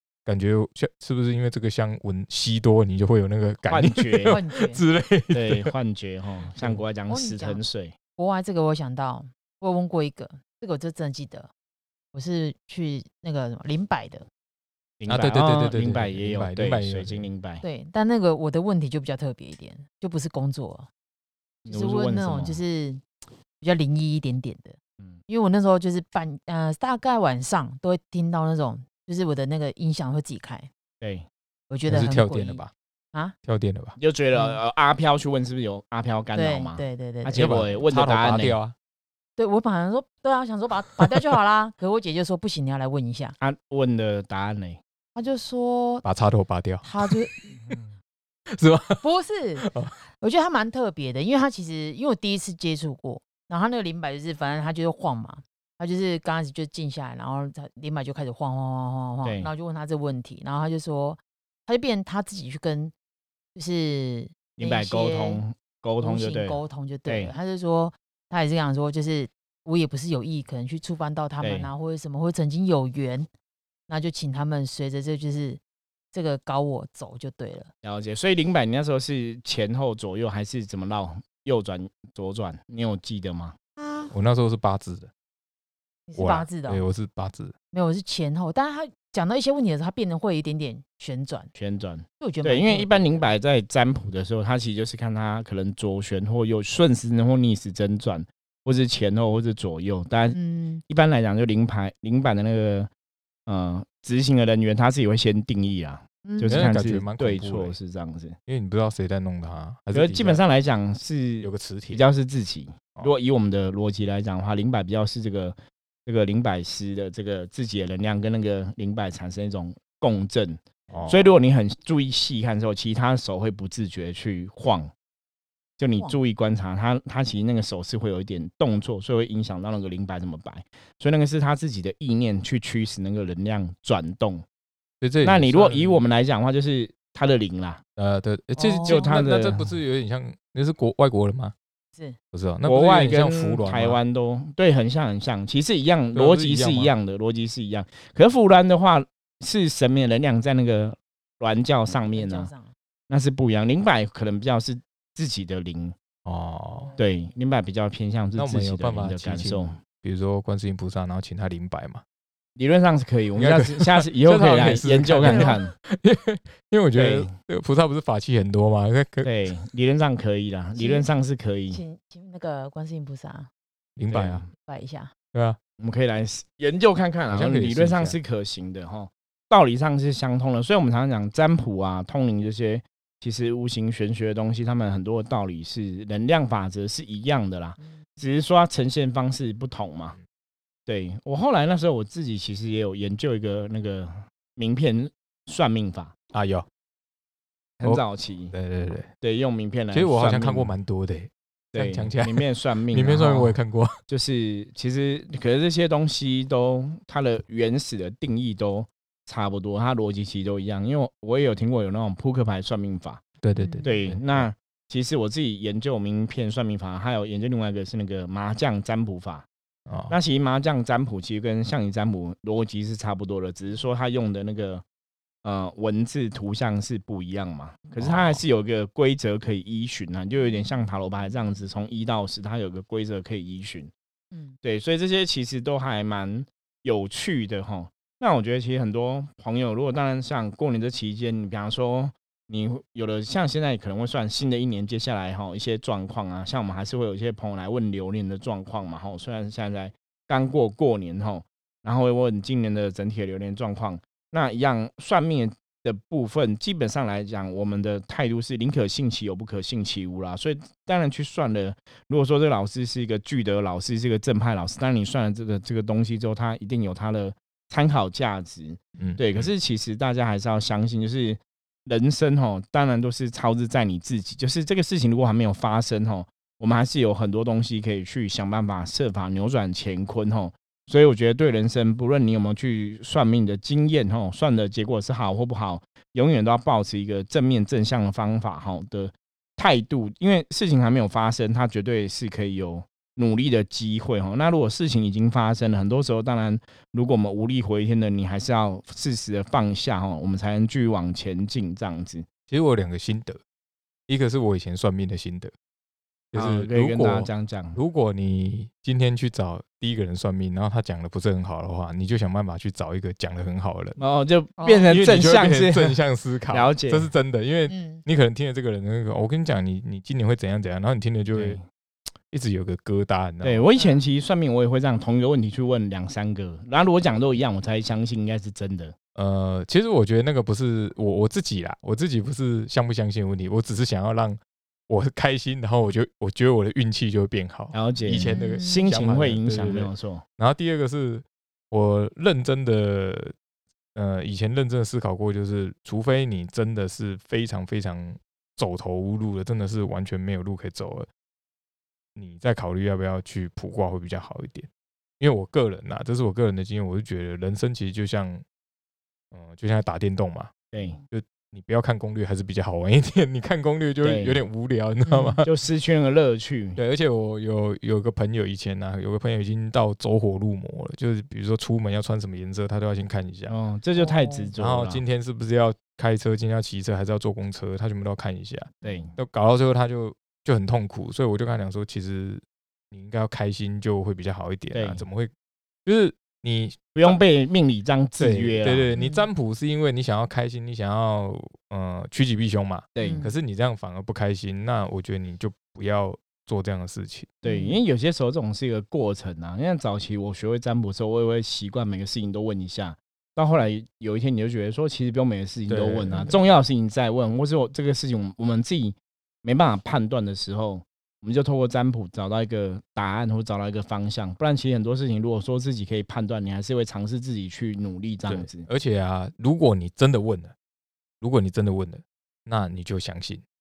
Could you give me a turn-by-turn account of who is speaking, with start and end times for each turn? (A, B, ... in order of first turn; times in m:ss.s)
0:00.3-0:05.7 A
0:03.7-0:04.4 B
0:04.3-0:04.8 C
0:05.3-0:07.9 B
0:07.1-0:07.6 C
0:08.2-0:11.5 C
0:12.1-0:14.2 C
0:15.0-0:17.6 B
0:15.1-0:17.3 A
0:17.6-0:20.9 C
0:21.7-0:22.6 B
0:21.7-0:23.0 C
0:23.6-0:30.7 C
0:31.0-0:31.3 B
0:31.7-0:33.4 C
0:31.9-0:32.7 A
0:33.4-0:34.0 A
0:34.0-0:38.6 B
0:34.3-0:34.6 C
0:36.3-0:37.4 C
0:37.3-0:38.8 A
0:39.4-0:43.3 C
0:43.4-0:44.8 B
0:45.2-0:46.0 C
0:46.0-0:47.1 A
0:46.8-0:47.5 C
0:48.5-0:49.0 A
0:49.0-1:02.9 C
0:49.6-0:49.9 A
0:59.2-0:59.5 B
1:03.6-1:05.4 C
1:04.6-1:07.4 B
1:06.0-1:13.3 C
1:11.4-1:11.7 B
1:13.9-1:15.6 C
1:16.1-1:17.7 C
1:17.8-1:23.6 B
1:24.1-1:25.1 A
1:26.1-1:26.8 C
1:26.2-1:27.5 A
1:27.7-1:31.5 C
1:31.6-1:42.9 B
1:32.2-1:33.3 C
1:40.3-1:40.8 C
1:43.5-1:48.4 B
1:46.2-1:46.6 C
1:46.5-1:47.8 A
1:48.5-1:50.4 A
1:49.9-2:04.9 B
1:51.4-1:52.0 A
2:00.9-2:01.4 A
2:05.8-2:14.4 B
2:15.0-2:16.0 A
2:15.2-2:17.8 B
2:18.0-2:21.5 A
2:18.6-2:19.1 C
2:18.8-2:19.7 B
2:22.3-2:24.0 A
2:22.6-2:32.5 B
2:26.1-2:26.9 A
2:32.1-2:32.7 C
2:33.1-2:36.0 B
2:36.2-2:36.9 A
2:36.7-2:37.0 C
2:37.0-2:39.7 B
2:38.4-2:42.0 A
2:42.6-2:45.7 B
2:43.4-2:49.3 A
2:45.2-2:45.6 C
2:46.9-2:47.3 B
2:49.2-2:51.8 B
2:50.8-2:51.1 C
2:51.7-2:53.5 C
2:54.0-2:54.4 A
2:54.1-2:54.5 B
2:54.6-2:55.1 C
2:55.3-2:55.6 A
2:55.8-3:10.2 B
2:57.3-2:58.2 A
3:10.9-3:16.1 B
3:16.3-3:16.7 A
3:17.8-3:18.5 B
3:17.8-3:19.1 A
3:19.2-3:20.7 B
3:19.9-3:24.0 A
3:21.8-3:33.2 B
3:33.4-3:34.5 A
3:33.6-3:34.0 C
3:33.8-3:39.5 B
3:39.9-3:40.2 A
3:40.1-3:44.8 B
3:45.4-3:53.9 B
3:48.0-3:48.4 A
3:54.3-3:54.6 C
3:54.6-5:02.3 B
4:29.0-4:29.5 A
5:02.5-5:03.4 A
5:04.1-5:05.5 A
5:06.3-5:14.0 A
5:06.3-5:07.8 B
5:14.0-5:16.0 B
5:14.6-5:14.8 C
5:14.9-5:21.6 A
5:16.5-5:17.1 B
5:17.7-5:18.0 C
5:21.4-5:21.6 B
5:22.3-5:23.6 A
5:23.4-5:29.0 B
5:23.8-5:24.0 C
5:29.2-5:43.4 A
5:37.7-5:40.2 B
5:38.1-5:38.8 C
5:44.0-5:51.1 A
5:52.2-5:54.7 A
5:55.2-5:58.4 A
5:59.3-6:00.5 A
6:00.7-6:01.0 B
6:01.1-6:05.5 A
6:04.0-6:04.4 B
6:05.0-6:05.5 C
6:05.4-6:06.8 B
6:06.8-6:13.5 A
6:13.5-6:15.0 B
6:14.0-6:14.5 C
6:14.6-6:25.3 A
6:18.8-6:19.1 C
6:18.8-6:19.1 B
6:24.7-6:25.0 B
6:25.8-6:27.2 A
6:27.0-6:28.9 B
6:28.2-6:37.4 A
6:28.9-6:29.3 C
6:33.0-6:33.2 B
6:33.0-6:33.3 C
6:37.4-6:58.7 B
6:37.4-6:37.8 C
6:45.7-6:46.4 A
6:46.1-6:46.4 C
6:58.3-7:00.5 A
7:01.2-7:03.4 A